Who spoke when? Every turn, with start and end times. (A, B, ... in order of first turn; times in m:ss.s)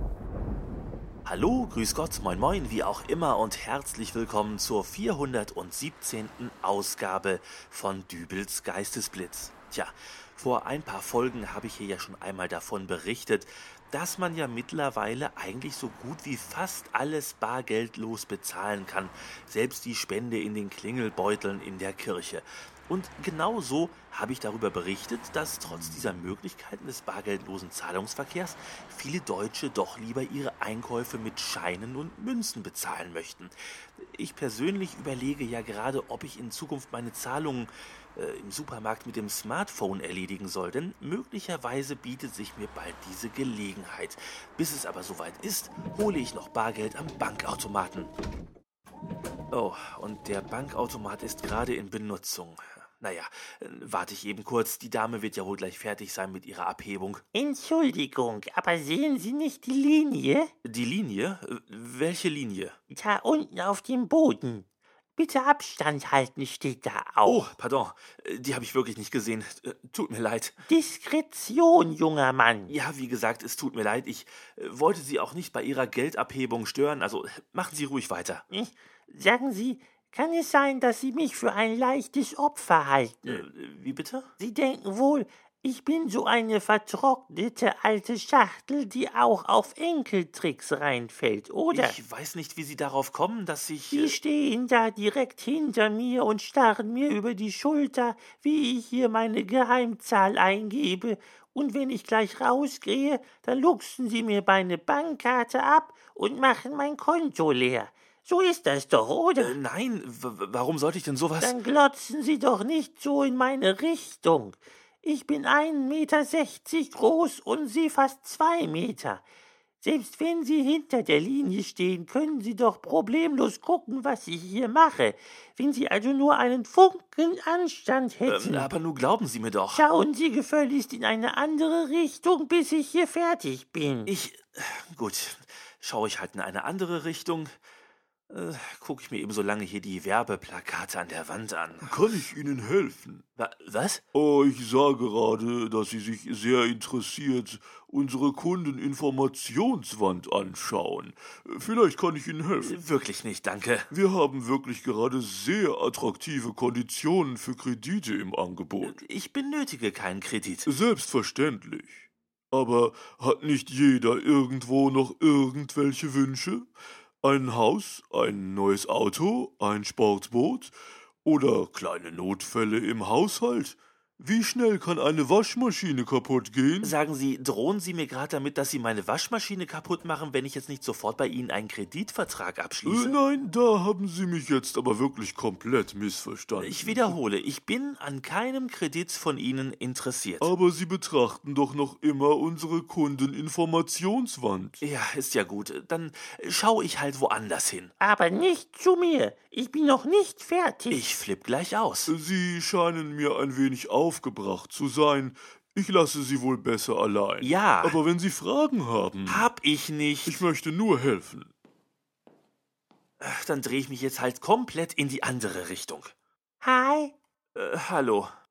0:01.2-0:48.1 A
0:49.5-0:57.2 A
0:57.3-1:00.5 B
1:00.6-1:02.8 A
1:02.9-1:07.4 B
1:07.2-1:10.6 A
1:10.6-1:12.7 B
1:12.7-1:18.4 A
1:18.5-1:23.4 B
1:23.3-1:24.3 A
1:24.4-1:32.0 B
1:31.7-1:34.2 A
1:33.9-1:49.6 B
1:49.4-1:51.6 A
1:51.4-1:59.2 B
1:59.8-2:08.7 B
2:08.3-2:09.8 A
2:09.7-2:14.1 B
2:14.1-2:17.5 A
2:18.3-2:21.9 A
2:21.8-2:23.2 C
2:23.4-2:24.0 A
2:24.1-2:32.8 C
2:32.6-2:33.9 A
2:33.9-2:39.0 C
2:38.8-2:40.7 A
2:40.6-2:46.7 C
2:47.2-2:56.9 C
2:56.8-3:03.2 A
3:02.8-3:07.2 C
3:06.6-3:10.5 A
3:10.4-3:14.8 C
3:14.8-3:17.9 A
3:18.0-3:21.1 B
3:20.9-3:22.1 A
3:22.1-3:29.5 C
3:27.4-3:28.0 A
3:29.2-3:30.4 A
3:30.2-3:31.5 C
3:33.2-3:36.1 A
3:36.6-3:37.1 B
3:37.5-3:38.3 A